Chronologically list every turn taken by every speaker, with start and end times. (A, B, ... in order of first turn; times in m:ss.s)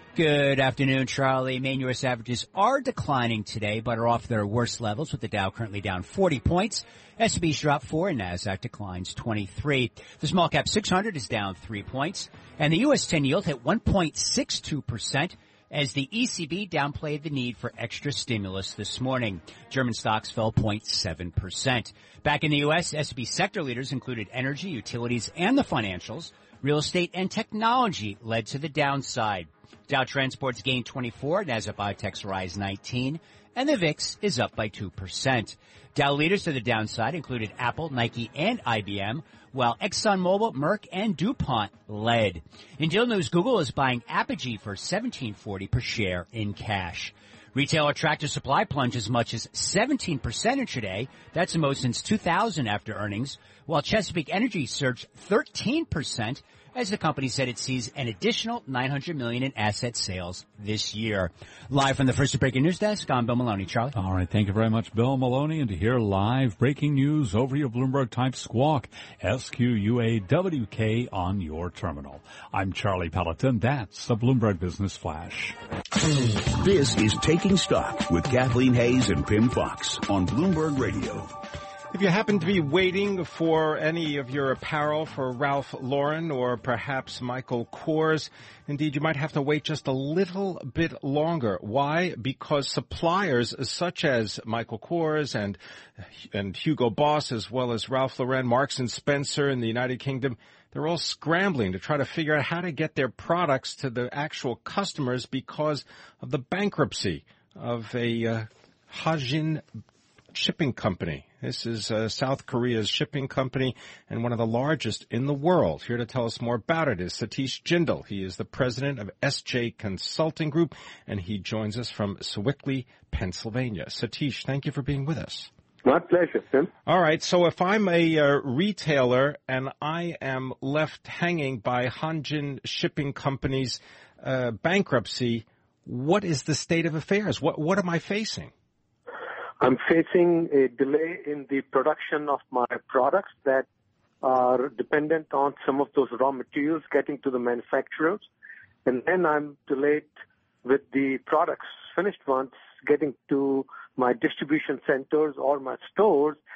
0:00.1-1:04.0 A
1:03.9-1:15.5 B
1:16.1-1:21.3 C
1:21.9-1:49.6 D
1:50.3-2:05.5 D
2:05.8-2:06.7 E
2:06.8-2:18.5 D
2:19.6-2:23.6 E
2:24.2-2:28.3 E
2:28.8-2:30.1 E
2:30.6-2:36.4 E